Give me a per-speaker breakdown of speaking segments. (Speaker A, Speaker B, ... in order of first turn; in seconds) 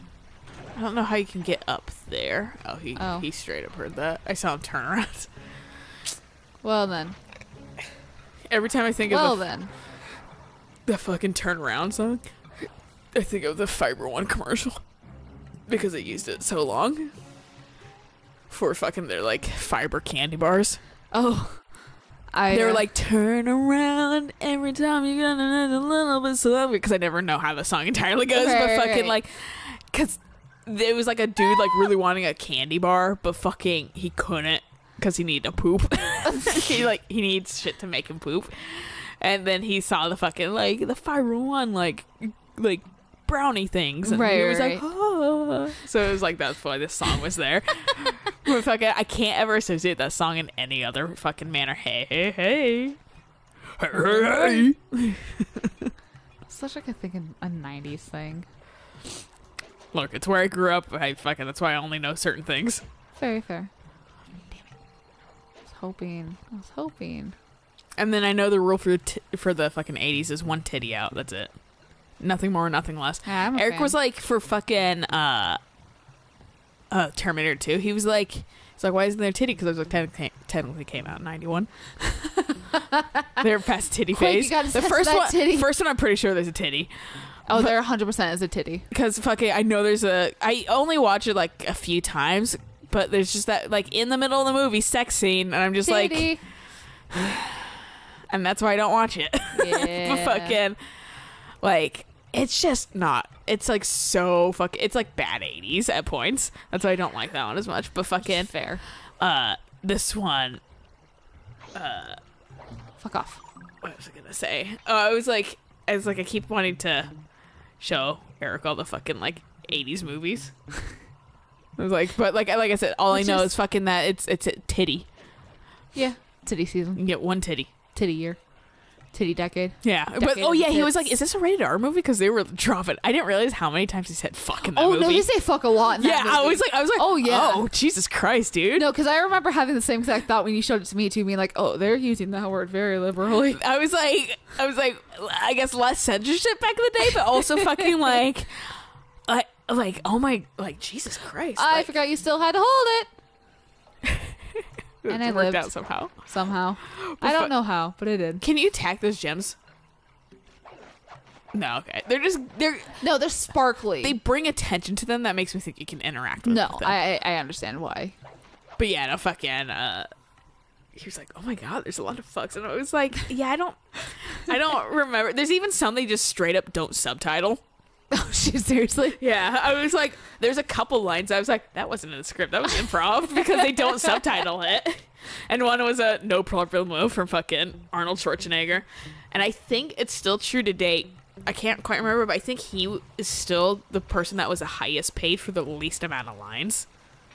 Speaker A: 0.7-5.3, 8.5-9.4, 10.8-14.8, 15.7-17.1, 18.5-20.8, 22.5-53.0, 53.8-55.9, 59.9-62.8, 68.0-71.5, 72.2-75.6, 76.9-82.0, 83.4-87.7, 88.9-96.3, 97.1-100.8, 101.6-108.6, 109.2-110.6, 111.7-112.2, 113.8-117.1, 117.8-120.5, 121.8-125.1, 127.0-127.7, 129.8-135.3, 136.0-138.9, 143.5-151.9, 154.1-156.1, 156.9-157.5, 158.4-159.6, 161.5-163.0, 164.0-167.0, 168.8-170.1, 170.9-177.6, 179.2-196.8
Speaker B: 3.0-3.3, 6.6-7.2, 9.1-9.7, 21.1-21.7, 22.3-22.8, 28.3-29.2, 44.0-44.8, 53.9-54.7, 56.5-58.5, 63.2-63.7, 65.7-67.3, 73.2-73.9, 82.4-83.4, 84.1-85.7, 87.5-88.8, 95.8-96.4, 99.5-100.6, 108.2-108.8, 113.0-113.4, 123.1-123.5, 125.9-127.0, 127.9-128.4, 129.1-131.1, 134.7-137.7, 138.7-143.6, 147.2-148.1, 151.6-153.1, 155.1-158.4, 163.0-164.2, 166.4-168.1, 178.1-179.2, 183.7-184.1